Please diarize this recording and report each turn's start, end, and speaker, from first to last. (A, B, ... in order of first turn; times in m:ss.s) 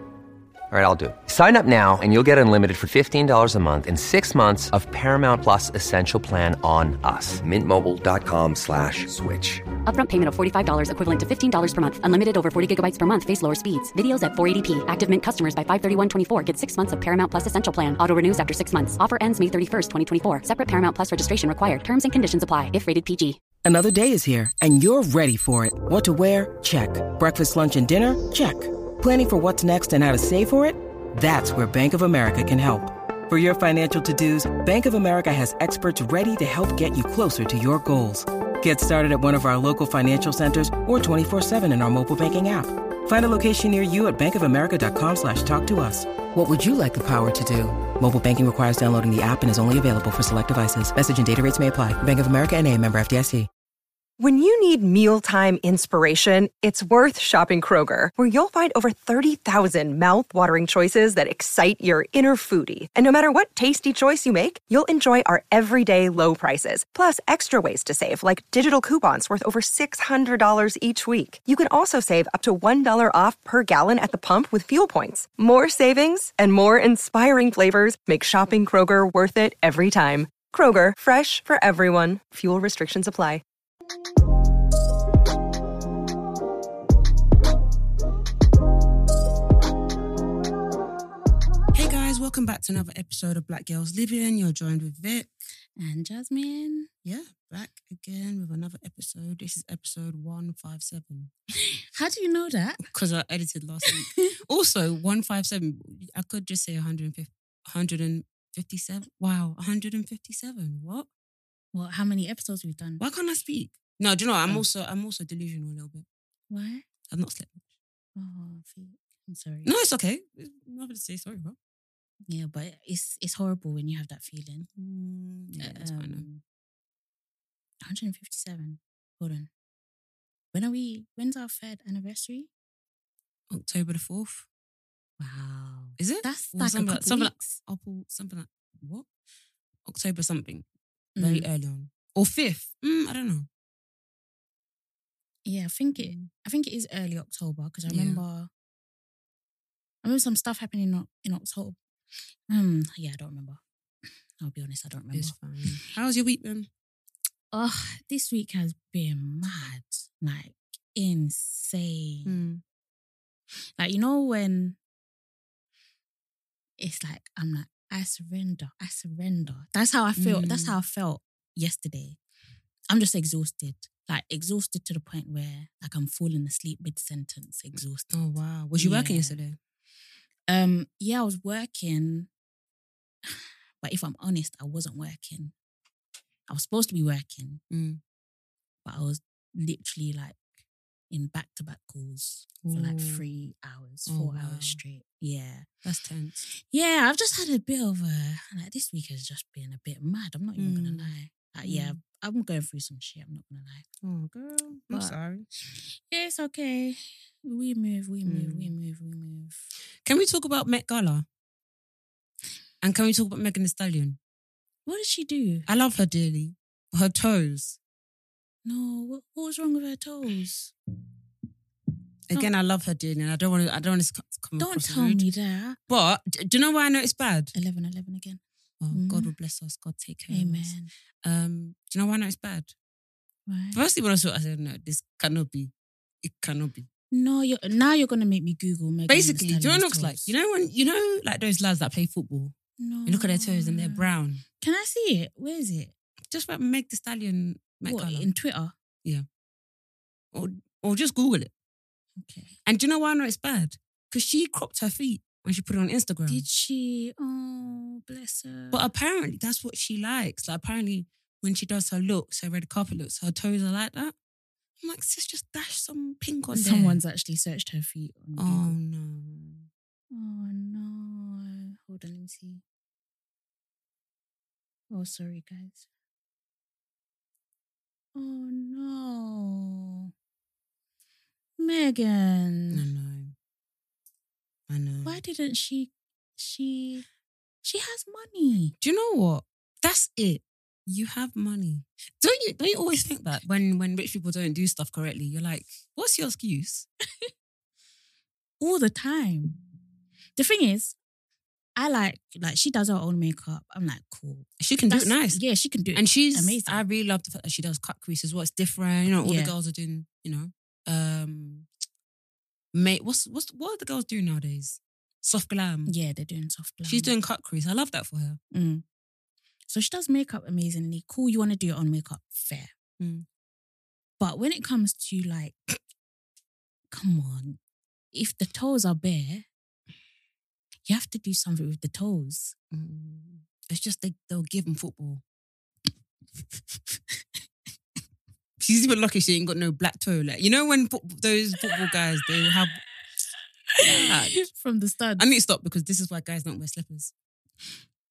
0:00.7-0:09.6 A
0:09.8-0:23.4 B
0:23.6-0:53.5 C
0:54.2-1:23.4 D
1:31.7-1:35.3 E
1:35.8-1:36.9 F
1:37.0-1:41.3 E
1:41.6-1:42.9 F
1:42.8-1:51.1 E
1:43.9-1:44.3 F
1:51.7-1:53.0 F
1:53.0-1:56.0 E
1:56.5-1:56.8 F
1:57.1-1:57.6 E
1:58.2-1:59.7 F
1:59.6-2:01.6 E
2:02.3-2:04.7 F
2:04.8-2:06.3 E
2:05.6-2:06.4 F
2:07.8-2:09.5 F
2:10.5-2:12.5 F
2:13.5-2:14.5 E
2:15.2-2:17.5 F
2:16.0-2:19.1 E
2:19.8-2:20.6 E
2:21.2-2:21.5 F
2:21.2-2:23.5 E
2:25.4-2:28.5 F
2:26.0-2:26.3 E
2:27.9-2:28.2 E
2:30.0-2:31.8 F
2:32.5-2:33.6 F
2:34.4-2:35.3 F
2:35.1-2:36.7 E
2:37.5-2:42.4 F
2:42.2-2:42.6 E
2:43.8-2:44.8 F
2:46.8-2:52.2 F
2:50.2-2:50.8 E
2:52.9-2:58.1 F
2:58.1-2:59.6 E
2:58.7-2:59.4 F
3:00.5-3:02.3 F
3:03.3-3:05.5 F
3:06.5-3:07.6 F
3:07.7-3:08.0 E
3:08.8-3:10.4 F
3:11.1-3:15.7 F
3:12.6-3:13.2 E
3:14.1-3:14.8 E
3:15.8-3:16.4 E
3:16.5-3:23.8 F
3:20.6-3:21.1 E
3:21.6-3:22.0 E
3:24.0-3:25.4 E
3:24.9-3:25.2 F
3:26.1-3:29.6 F
3:28.2-3:28.7 E
3:30.0-3:31.2 E
3:32.8-3:34.2 E
3:34.8-3:35.7 F
3:35.6-3:37.8 E
3:38.6-3:40.7 F
3:42.3-3:45.2 E
3:44.6-3:45.8 F
3:45.9-3:47.5 E
3:47.5-3:48.4 F
3:48.8-3:52.7 E
3:48.9-3:49.3 F
3:50.3-3:50.9 F
3:53.5-3:53.8 F
3:53.7-3:55.7 E
3:56.2-3:56.9 E
3:57.1-4:00.3 F
3:59.1-4:02.5 E
4:02.8-4:04.1 F
4:03.0-4:04.4 E
4:04.6-4:05.9 F
4:06.3-4:08.3 E
4:07.8-4:08.7 F
4:10.3-4:11.5 E
4:12.2-4:12.6 F
4:12.6-4:16.4 E
4:16.3-4:18.8 F
4:18.7-4:24.1 E
4:24.8-4:27.0 E
4:26.5-4:28.7 F
4:28.4-4:29.7 E
4:30.1-4:32.6 F
4:34.9-4:35.8 F
4:38.1-4:40.1 F
4:41.6-4:42.8 F
4:42.7-4:43.3 E
4:44.7-4:45.2 E
4:45.0-4:47.0 F
4:47.6-4:48.7 F
4:48.8-4:56.9 E
4:58.6-4:59.6 F
5:00.4-5:01.0 F
5:01.8-5:06.8 F
5:04.6-5:05.4 E
5:05.9-5:11.7 E
5:09.2-5:09.5 F
5:12.7-5:15.9 E
5:15.9-5:17.1 F
5:16.8-5:18.4 E
5:18.5-5:18.8 F
5:19.7-5:22.7 F
5:23.0-5:23.2 E
5:24.2-5:25.5 F
5:26.9-5:27.6 F
5:28.1-5:29.5 F
5:30.9-5:32.5 F
5:32.7-5:35.2 E
5:38.6-5:42.8 E
5:43.7-5:45.2 F
5:43.8-5:44.5 E
5:45.2-5:47.1 E